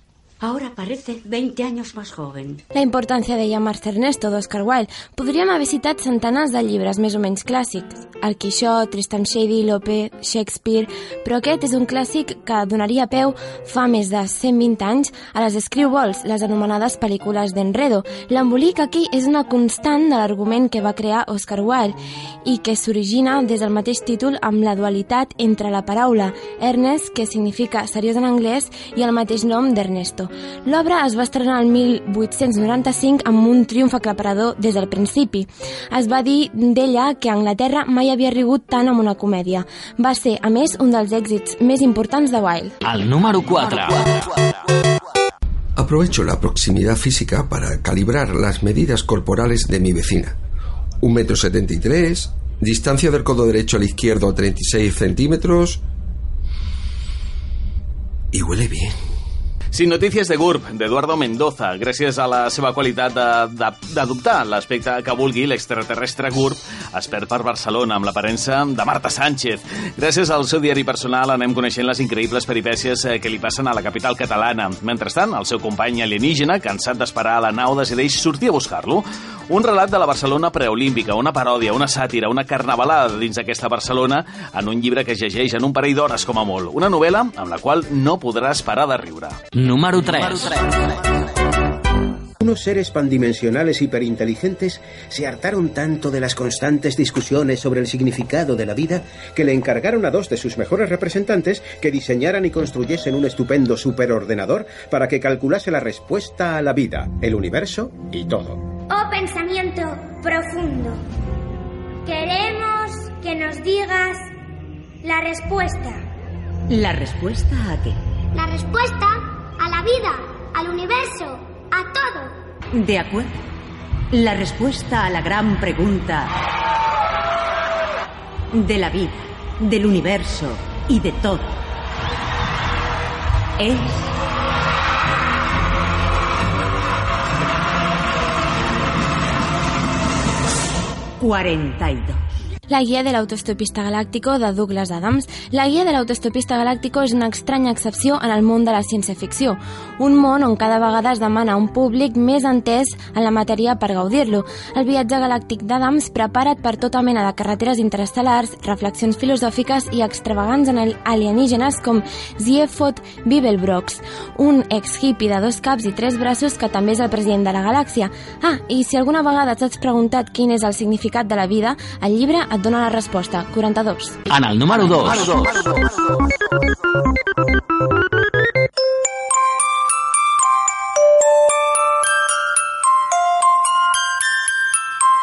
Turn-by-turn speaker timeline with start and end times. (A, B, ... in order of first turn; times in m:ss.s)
0:00.4-0:02.6 A
0:02.7-0:42.8 B
0:42.8-0:44.2 C
0:45.8-0:50.4 D
0:51.0-0:55.8 D
0:58.3-0:59.0 D
0:59.7-1:29.4 E
1:29.5-1:30.7 C
1:32.4-1:48.6 F
1:48.9-1:51.0 G
1:52.0-1:54.3 G
1:55.0-1:56.0 G
1:56.7-1:58.0 A
1:58.3-2:02.3 G
2:02.7-2:03.4 A
2:04.1-2:06.3 A
2:08.5-2:11.6 A
2:13.6-2:14.0 A
2:21.2-2:22.2 A
2:22.7-2:54.2 B
2:54.3-2:55.7 C